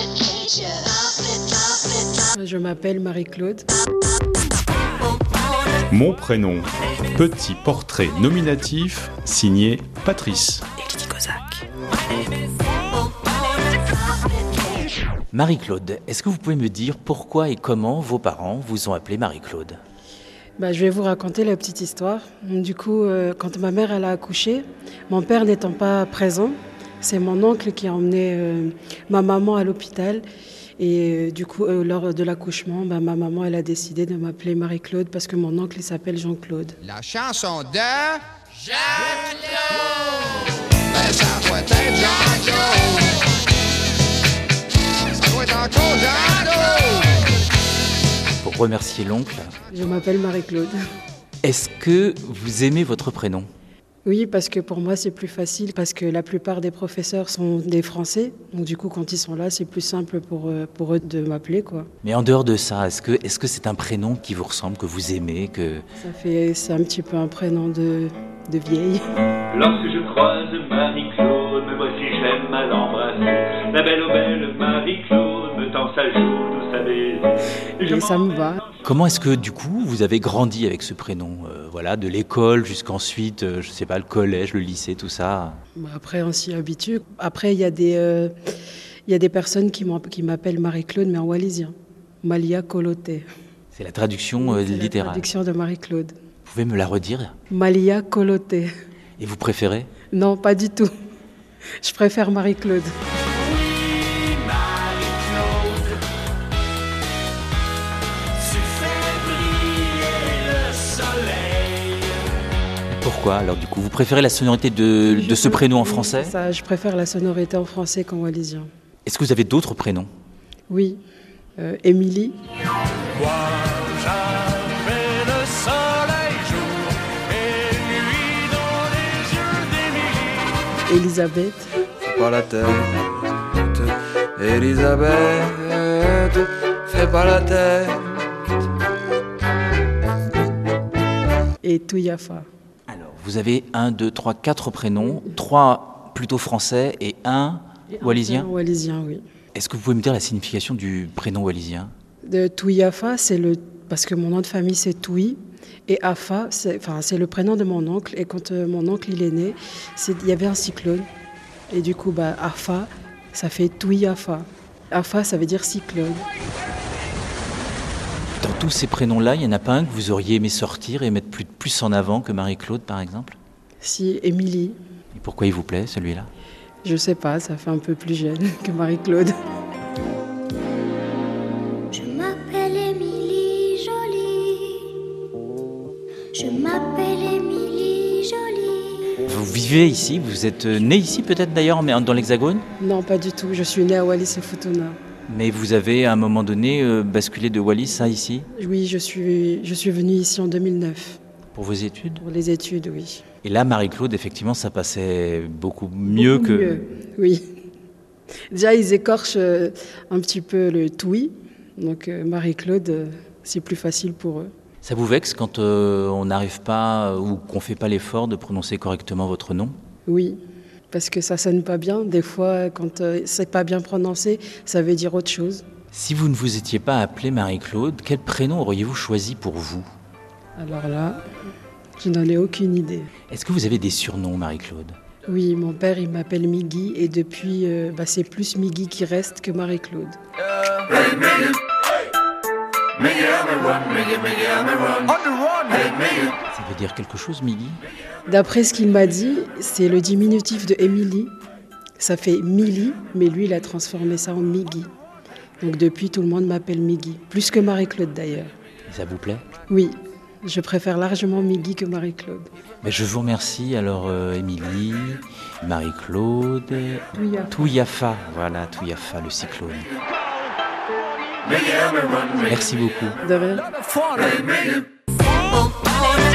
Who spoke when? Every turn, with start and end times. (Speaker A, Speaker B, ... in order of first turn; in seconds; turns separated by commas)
Speaker A: 2.3-3.7, Speaker B: 5.9-10.7, Speaker A: 10.9-11.5, Speaker C: 15.3-19.8, Speaker A: 20.6-30.2, Speaker A: 30.8-36.8, Speaker D: 36.8-39.6, Speaker D: 40.9-43.2, Speaker D: 45.2-47.2, Speaker C: 48.4-49.5, Speaker A: 49.7-50.8, Speaker C: 51.4-53.5, Speaker A: 54.0-61.9, Speaker C: 62.0-65.8, Speaker A: 66.0-69.0, Speaker E: 69.5-78.3, Speaker A: 77.8-78.6, Speaker C: 78.8-85.6, Speaker A: 85.8-88.3, Speaker A: 89.1-93.3, Speaker C: 93.7-95.3, Speaker A: 94.4-96.1, Speaker C: 96.5-97.3, Speaker A: 97.5-98.7, Speaker C: 99.2-99.9, Speaker A: 100.1-100.9, Speaker A: 101.8-102.9, Speaker E: 103.6-106.0, Speaker E: 108.8-111.8, Speaker C: 113.0-116.3, Speaker A: 115.1-118.7, Speaker C: 119.0-120.1, Speaker A: 120.7-121.0, Speaker A: 121.6-122.4, Speaker F: 125.4-126.7, Speaker F: 127.9-128.7, Speaker A: 130.9-131.7, Speaker F: 132.0-138.2, Speaker A: 141.6-142.5, Speaker C: 142.9-148.5, Speaker A: 147.9-149.2, Speaker C: 149.5-151.9, Speaker A: 152.2-161.1, Speaker A: 161.7-166.2, Speaker C: 168.4-173.4, Speaker A: 173.8-174.8, Speaker C: 175.1-176.3, Speaker A: 176.8-179.3, Speaker G: 181.9-185.0, Speaker G: 186.3-189.2, Speaker C: 189.2-192.7, Speaker A: 192.8-195.0, Speaker C: 195.3-198.5, Speaker A: 198.5-201.2, Speaker C: 201.5-202.2, Speaker A: 202.2-203.2, Speaker C: 203.4-206.8, Speaker A: 206.1-207.4, Speaker A: 208.5-214.5, Speaker C: 214.8-219.8, Speaker A: 220.1-220.4, Speaker A: 220.9-225.7, Speaker C: 225.9-229.9, Speaker A: 230.6-231.2, Speaker A: 232.0-233.1, Speaker C: 233.3-235.0, Speaker A: 235.3-240.2, Speaker F: 243.8-245.0, Speaker F: 245.6-245.9, Speaker C: 246.5-247.8, Speaker A: 248.3-251.3, Speaker A: 252.0-254.9, Speaker A: 255.6-258.5, Speaker C: 258.9-259.4, Speaker A: 259.7-262.5, Speaker C: 262.8-269.9, Speaker A: 267.1-267.8, Speaker C: 272.4-273.2, Speaker A: 273.2-273.7, Speaker F: 273.9-274.6